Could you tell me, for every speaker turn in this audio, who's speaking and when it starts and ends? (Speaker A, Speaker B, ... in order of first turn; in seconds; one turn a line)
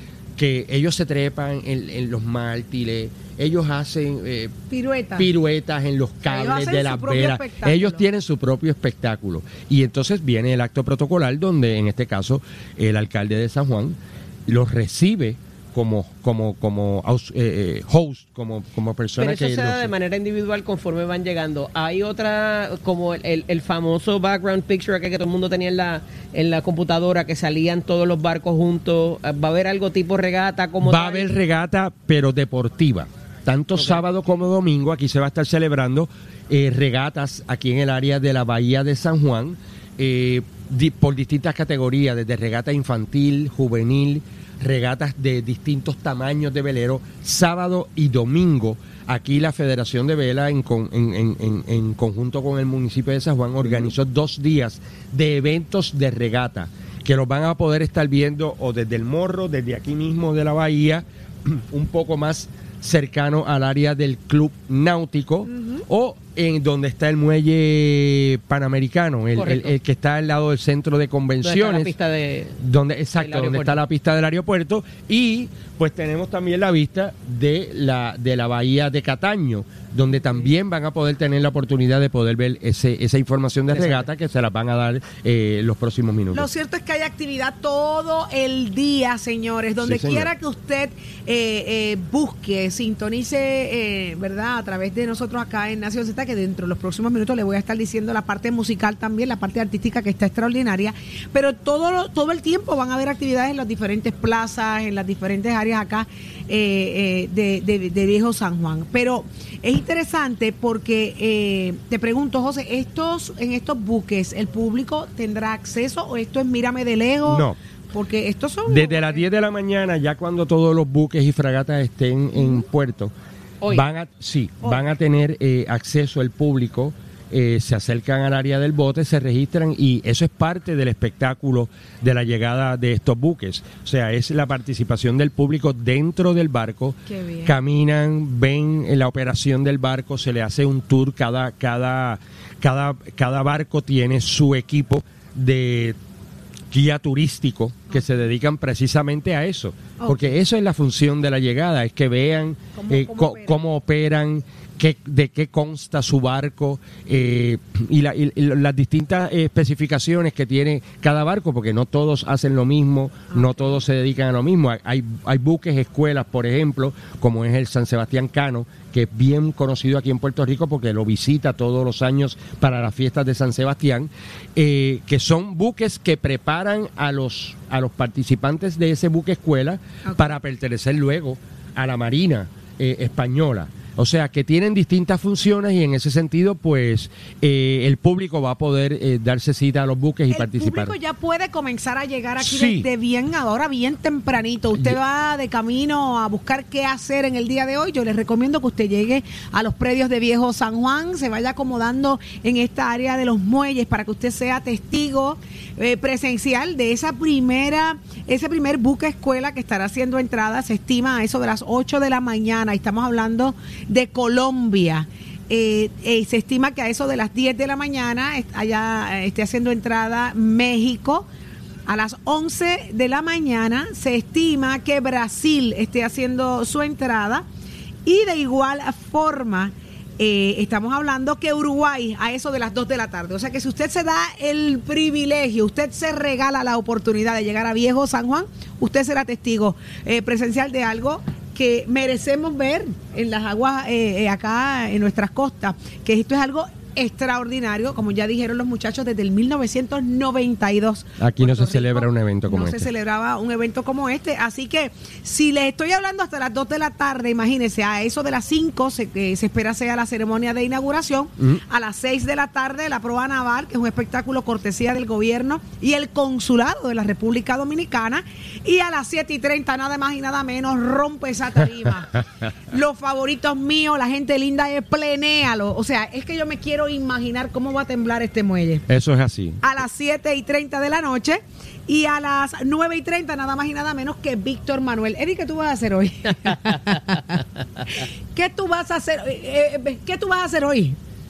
Speaker A: 0.4-4.5
Speaker B: 4.7-5.3
Speaker A: 5.2-19.9
Speaker B: 6.3-8.1
Speaker C: 19.2-31.4
Speaker A: 30.8-72.0
Speaker C: 33.8-34.1
Speaker C: 69.4-69.7
Speaker C: 71.4-72.6
Speaker A: 72.6-86.5
Speaker C: 73.2-73.8
Speaker C: 83.7-84.1
Speaker B: 86.3-119.2
Speaker A: 89.8-90.3
Speaker A: 117.2-117.6
Speaker A: 118.7-123.1
Speaker B: 122.3-122.6
Speaker A: 123.7-146.0
Speaker B: 124.6-124.9
Speaker B: 137.1-137.6
Speaker A: 146.7-191.0
Speaker B: 150.0-150.3
Speaker B: 152.8-153.6
Speaker B: 163.3-163.8
Speaker B: 180.1-180.3
Speaker B: 190.3-221.3
Speaker A: 192.4-192.9
Speaker B: 221.9-227.4
Speaker B: 228.1-278.9
Speaker A: 251.2-252.9
Speaker A: 278.9-279.6
Speaker B: 279.6-291.0
Speaker C: 286.5-286.8